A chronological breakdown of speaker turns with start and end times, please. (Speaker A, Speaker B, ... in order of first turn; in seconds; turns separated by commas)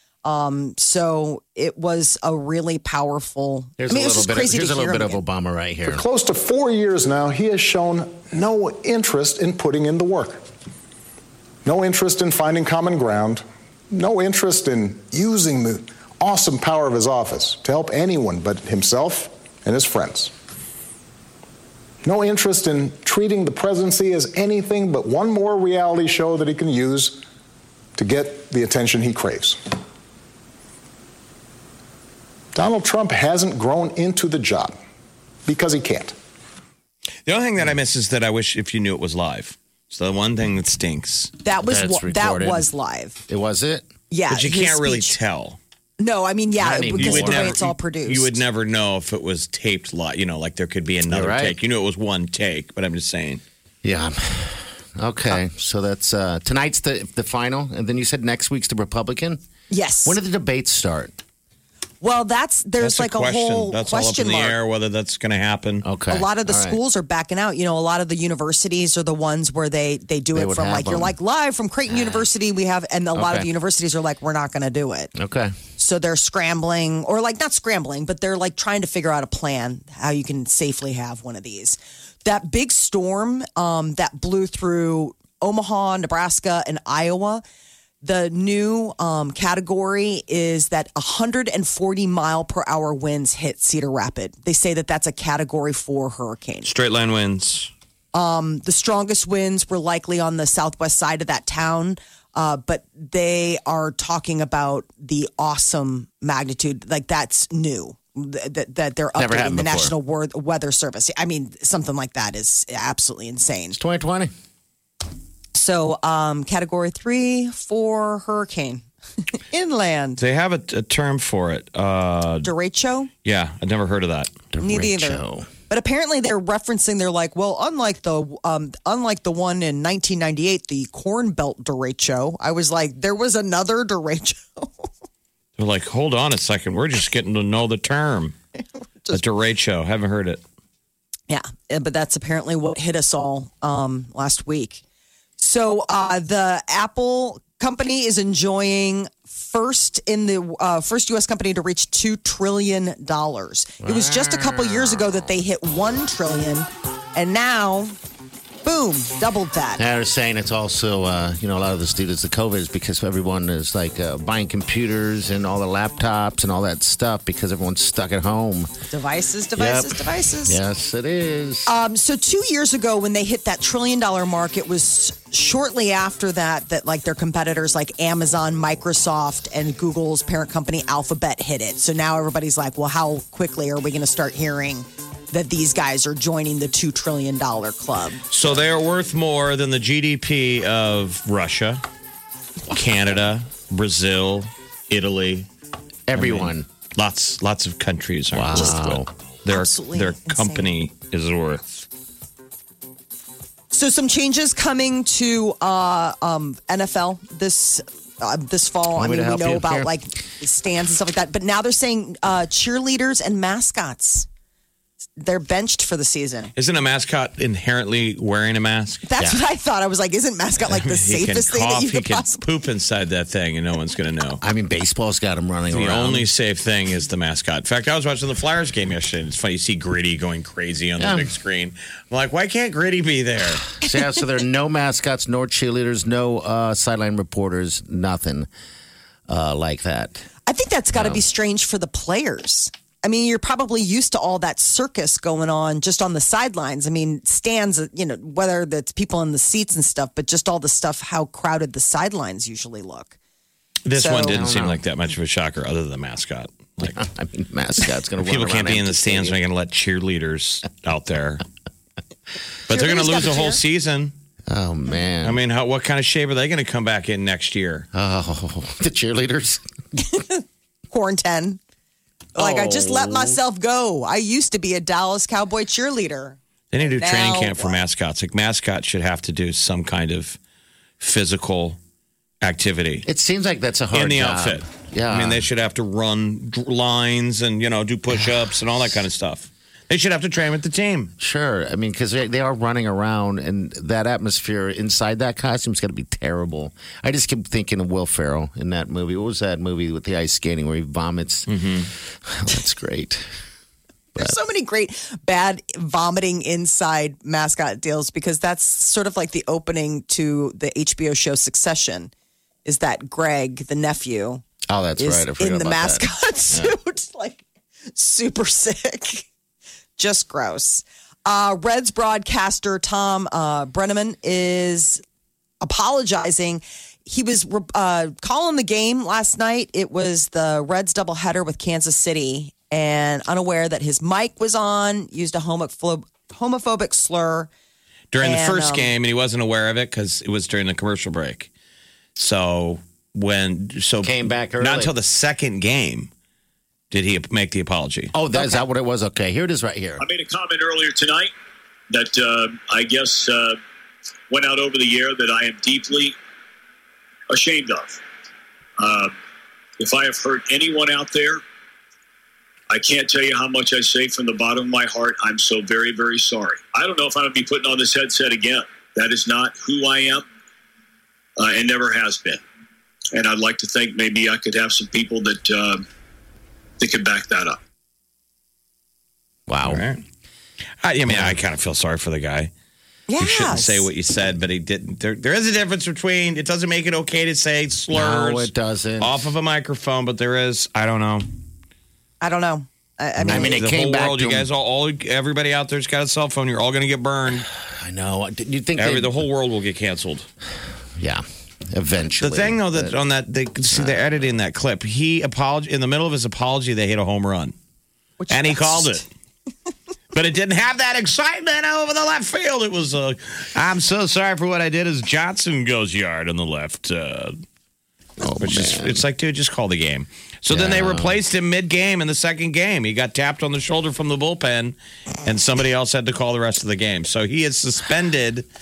Speaker A: 0.2-5.2, Speaker B: 3.8-6.0, Speaker C: 5.9-10.4, Speaker C: 11.6-20.3, Speaker C: 22.0-27.2, Speaker C: 27.9-29.6, Speaker C: 32.5-34.8, Speaker C: 35.5-36.1, Speaker D: 37.2-41.3, Speaker A: 41.4-43.2, Speaker B: 41.6-42.7, Speaker B: 43.3-43.9, Speaker A: 44.1-45.2, Speaker D: 44.3-45.6, Speaker A: 46.0-48.4, Speaker B: 46.6-47.6, Speaker D: 46.9-53.4, Speaker B: 51.1-51.5, Speaker B: 53.8-59.4, Speaker A: 59.7-60.2, Speaker B: 60.0-61.1, Speaker A: 62.0-64.6, Speaker D: 62.8-65.8, Speaker B: 65.8-66.8, Speaker A: 66.1-75.1, Speaker B: 70.3-71.1, Speaker B: 71.9-72.2, Speaker B: 73.1-73.5, Speaker B: 75.1-75.5, Speaker A: 75.8-87.4, Speaker A: 88.0-96.7, Speaker D: 96.6-97.7, Speaker A: 98.1-113.8, Speaker B: 109.2-109.9, Speaker B: 113.7-114.3, Speaker A: 115.5-118.8, Speaker A: 119.4-120.2, Speaker D: 120.2-122.5, Speaker A: 122.4-123.1, Speaker D: 123.2-124.3, Speaker B: 124.5-125.5, Speaker A: 124.6-134.9, Speaker D: 135.6-138.3, Speaker D: 139.1-140.4, Speaker A: 141.3-144.8, Speaker A: 145.4-157.9, Speaker B: 153.8-155.1, Speaker A: 158.6-159.8, Speaker B: 159.8-168.7, Speaker A: 168.9-170.6, Speaker B: 169.6-171.7, Speaker A: 171.7-188.2, Speaker D: 188.3-191.8, Speaker D: 192.7-195.5, Speaker B: 196.1-196.7, Speaker D: 196.1-201.8, Speaker B: 198.3-199.1, Speaker A: 199.5-200.7, Speaker A: 203.7-214.3, Speaker B: 208.9-209.9, Speaker A: 215.2-216.5, Speaker D: 216.6-219.0, Speaker A: 219.0-222.4, Speaker D: 220.7-224.4, Speaker B: 224.4-226.3, Speaker D: 225.7-233.7, Speaker B: 231.0-231.3, Speaker B: 233.8-238.5, Speaker B: 239.3-240.2, Speaker A: 240.5-253.1, Speaker B: 240.9-241.2, Speaker D: 253.8-257.0, Speaker A: 253.9-254.4, Speaker B: 254.2-254.8, Speaker B: 256.8-259.4, Speaker D: 258.2-261.4, Speaker D: 262.7-264.1, Speaker A: 262.7-263.6, Speaker B: 264.5-265.4, Speaker D: 265.2-267.9, Speaker B: 267.9-269.6, Speaker A: 270.0-271.6, Speaker B: 272.3-273.4, Speaker A: 272.4-277.8, Speaker D: 276.7-280.4, Speaker D: 281.0-281.8, Speaker D: 282.4-283.1, Speaker B: 283.1-285.5, Speaker D: 283.9-291.1, Speaker B: 291.2-301.6, Speaker D: 301.5-301.9, Speaker B: 302.2-303.2, Speaker A: 304.1-312.1, Speaker A: 312.6-314.4, Speaker B: 314.7-316.7, Speaker A: 315.0-317.4, Speaker A: 317.9-319.3, Speaker A: 320.0-325.0, Speaker A: 325.6-337.5, Speaker D: 338.1-341.5, Speaker A: 338.2-338.9, Speaker D: 342.1-346.1, Speaker B: 344.0-344.9, Speaker D: 346.9-348.1, Speaker B: 348.1-350.0, Speaker A: 348.3-348.6, Speaker E: 350.0-351.3, Speaker E: 351.9-353.6, Speaker E: 354.3-356.1, Speaker E: 357.3-358.0, Speaker E: 358.8-359.1, Speaker E: 359.8-361.4, Speaker E: 362.7-370.2, Speaker E: 371.4-372.4, Speaker E: 373.1-375.8, Speaker E: 376.8-377.6, Speaker B: 379.5-379.9, Speaker D: 379.6-380.0, Speaker D: 380.8-382.5, Speaker B: 381.1-381.4, Speaker A: 383.1-383.9, Speaker D: 383.2-391.3, Speaker B: 387.9-389.2, Speaker A: 392.2-393.6, Speaker D: 393.2-397.5, Speaker B: 393.2-394.5, Speaker B: 397.5-399.2, Speaker D: 398.8-400.3, Speaker B: 401.0-402.9, Speaker D: 402.2-407.5, Speaker B: 403.7-404.2, Speaker A: 408.2-409.0, Speaker D: 408.3-409.1, Speaker D: 410.1-417.4, Speaker B: 418.2-419.0, Speaker D: 418.4-428.4, Speaker B: 420.5-421.2